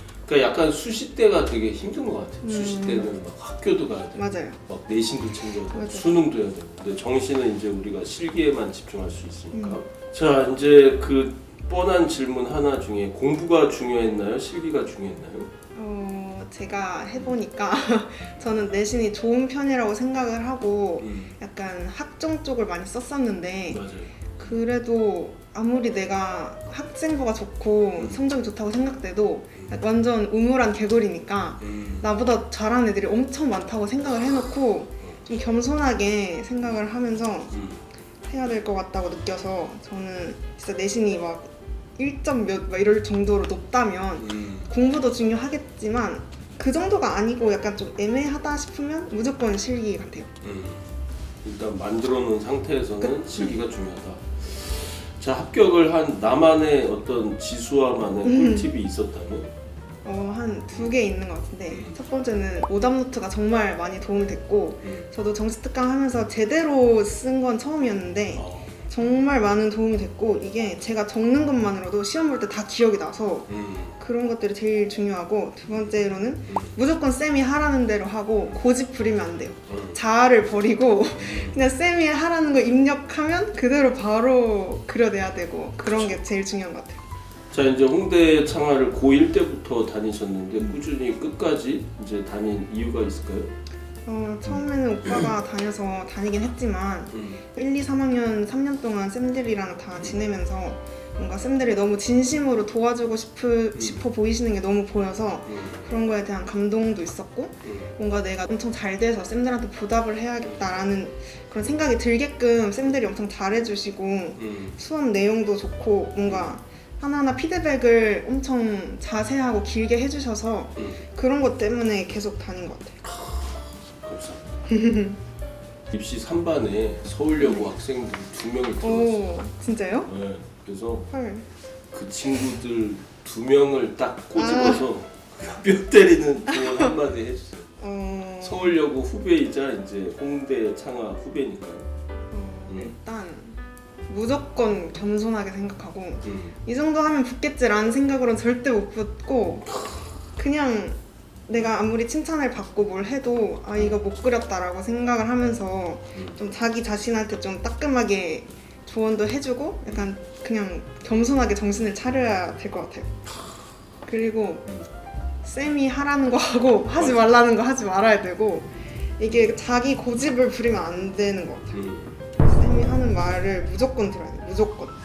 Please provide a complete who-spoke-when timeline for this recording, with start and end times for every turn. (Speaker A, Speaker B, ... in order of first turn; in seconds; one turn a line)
Speaker A: 0.2-15.5
Speaker B: 2.4-3.1
Speaker B: 4.1-4.6
Speaker B: 5.7-6.2
Speaker B: 9.5-9.8
Speaker B: 15.7-23.8
Speaker A: 21.0-21.4
Speaker A: 23.7-24.6
Speaker B: 24.3-37.6
Speaker A: 29.5-29.8
Speaker A: 31.6-32.1
Speaker A: 37.5-37.8
Speaker B: 38.2-50.3
Speaker A: 44.2-44.7
Speaker A: 50.4-50.9
Speaker A: 51.4-59.5
Speaker B: 53.0-53.6
Speaker B: 58.2-58.7
Speaker B: 60.0-87.0
Speaker A: 61.7-62.0
Speaker A: 64.8-65.1
Speaker A: 68.3-68.7
Speaker A: 73.5-74.0
Speaker A: 76.5-76.8
Speaker A: 79.7-80.0
Speaker A: 81.1-81.6
Speaker A: 85.8-86.2
Speaker A: 87.5-93.5
Speaker B: 94.0-123.0
Speaker A: 94.5-95.3
Speaker A: 97.1-97.4
Speaker A: 100.0-100.2
Speaker A: 103.7-104.0
Speaker A: 105.5-105.9
Speaker A: 107.6-107.9
Speaker A: 110.4-110.8
Speaker A: 114.4-114.8
Speaker A: 116.2-116.5
Speaker A: 120.8-121.0
Speaker A: 123.0-124.4
Speaker B: 124.7-125.2
Speaker A: 125.9-129.3
Speaker B: 127.4-127.7
Speaker B: 128.8-130.1
Speaker A: 130.1-131.1
Speaker B: 131.1-131.4
Speaker A: 131.9-137.7
Speaker B: 134.3-134.9
Speaker B: 136.5-136.9
Speaker B: 137.8-138.8
Speaker A: 138.4-141.9
Speaker B: 142.3-149.7
Speaker A: 142.7-142.9
Speaker A: 146.2-146.6
Speaker B: 150.3-163.1
Speaker A: 156.1-156.4
Speaker B: 164.1-164.7
Speaker B: 165.4-171.8
Speaker A: 166.9-167.3
Speaker A: 171.7-172.2
Speaker B: 172.4-174.9